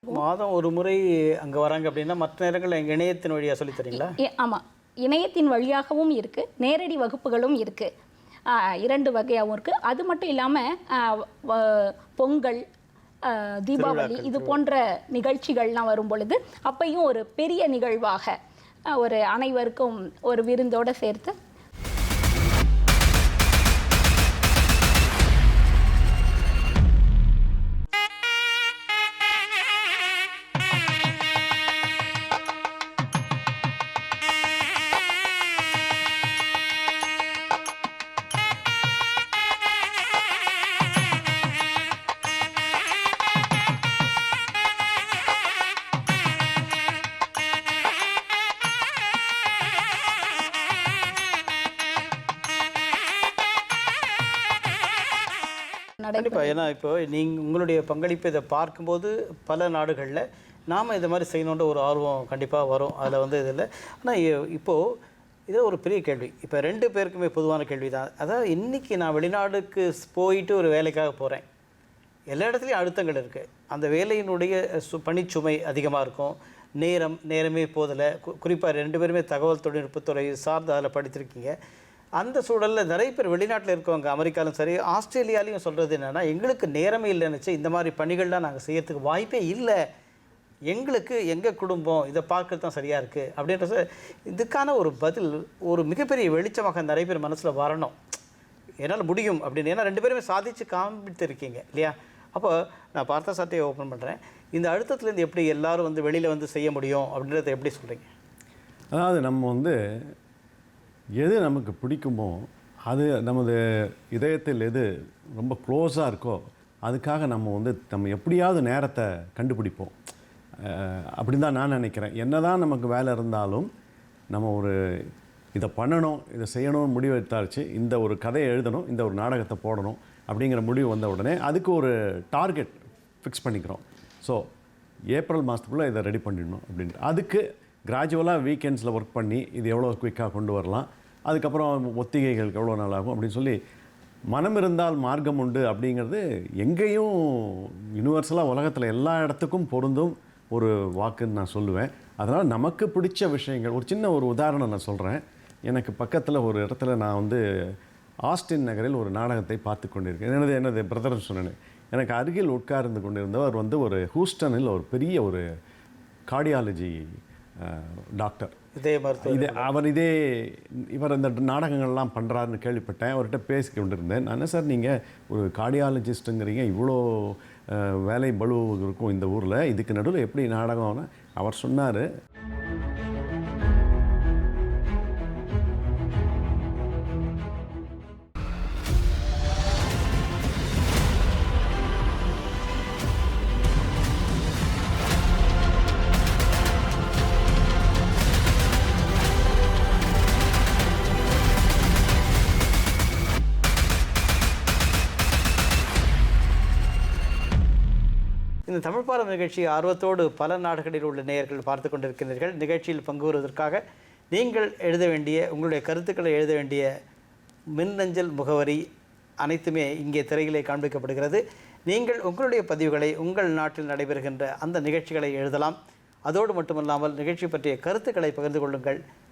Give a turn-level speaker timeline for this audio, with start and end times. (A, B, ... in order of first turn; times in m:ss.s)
0:00.1-0:04.1 A
0:04.0-0:07.9 B
0:08.8-0:12.6 B
0:13.3-0:18.4 B
0:13.8-0:14.6 A
0:19.0-0:21.4 B
0:56.0-0:56.6 B
0:56.1-1:04.8 A
1:05.5-1:11.5 A
1:12.3-1:21.6 A
1:22.2-1:29.8 A
1:30.7-1:38.0 A
1:38.8-1:48.1 A
1:48.9-1:49.8 C
1:51.2-1:53.6 C
1:54.1-1:59.9 C
2:00.6-2:03.7 C
2:04.3-2:14.4 C
2:15.1-2:23.6 C
2:24.3-2:37.7 C
2:38.2-2:45.4 C
2:46.3-2:47.0 C
2:47.6-2:48.6 C
2:48.8-2:49.7 A
2:49.2-3:02.1 C
3:28.7-3:33.8 A
3:34.3-3:36.9 A
3:37.8-3:38.8 A
3:39.4-3:45.8 A
3:46.3-3:49.0 A